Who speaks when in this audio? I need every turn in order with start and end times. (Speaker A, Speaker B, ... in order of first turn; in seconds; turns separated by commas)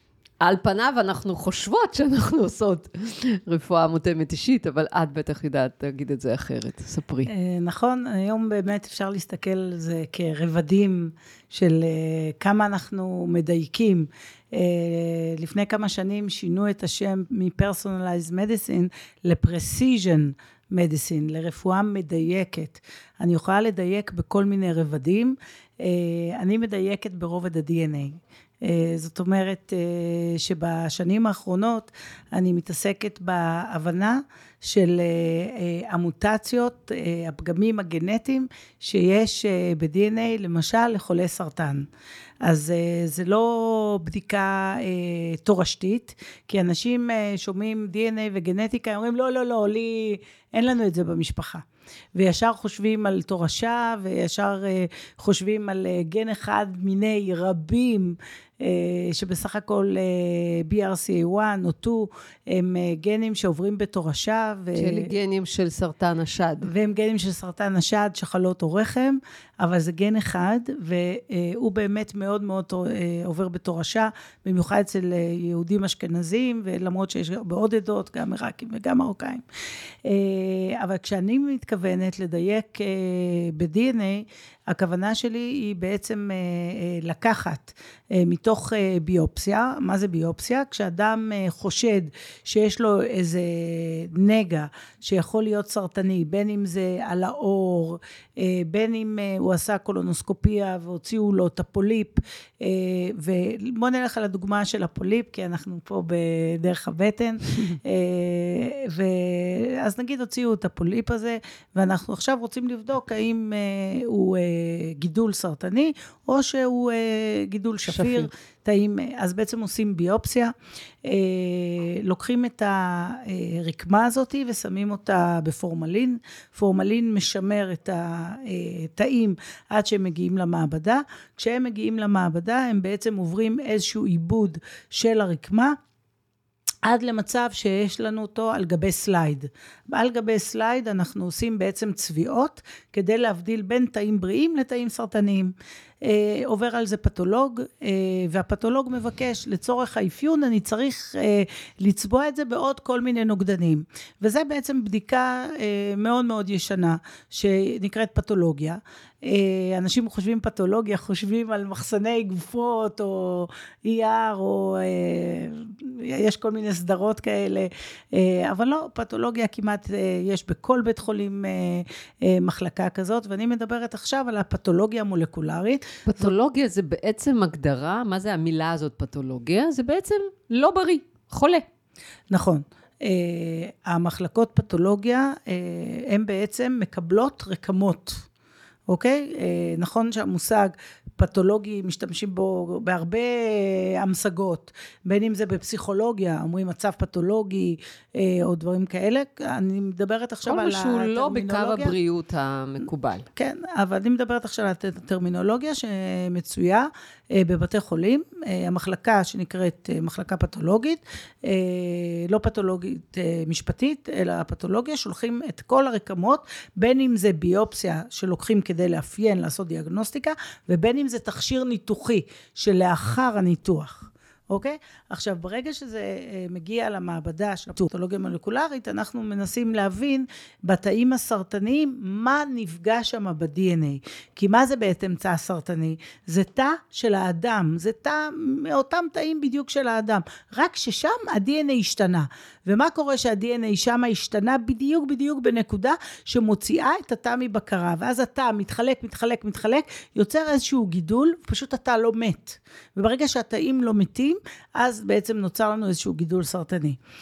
Speaker A: 0.4-7.3, Speaker B: 7.3-41.9, Speaker B: 42.4-65.1, Speaker A: 64.8-66.7, Speaker B: 66.6-79.4, Speaker B: 80.0-120.5, Speaker A: 117.9-118.3, Speaker B: 121.0-135.8, Speaker B: 136.8-176.3, Speaker A: 176.1-181.7, Speaker B: 182.3-188.3, Speaker B: 188.9-201.9, Speaker A: 200.5-203.3, Speaker B: 203.4-257.0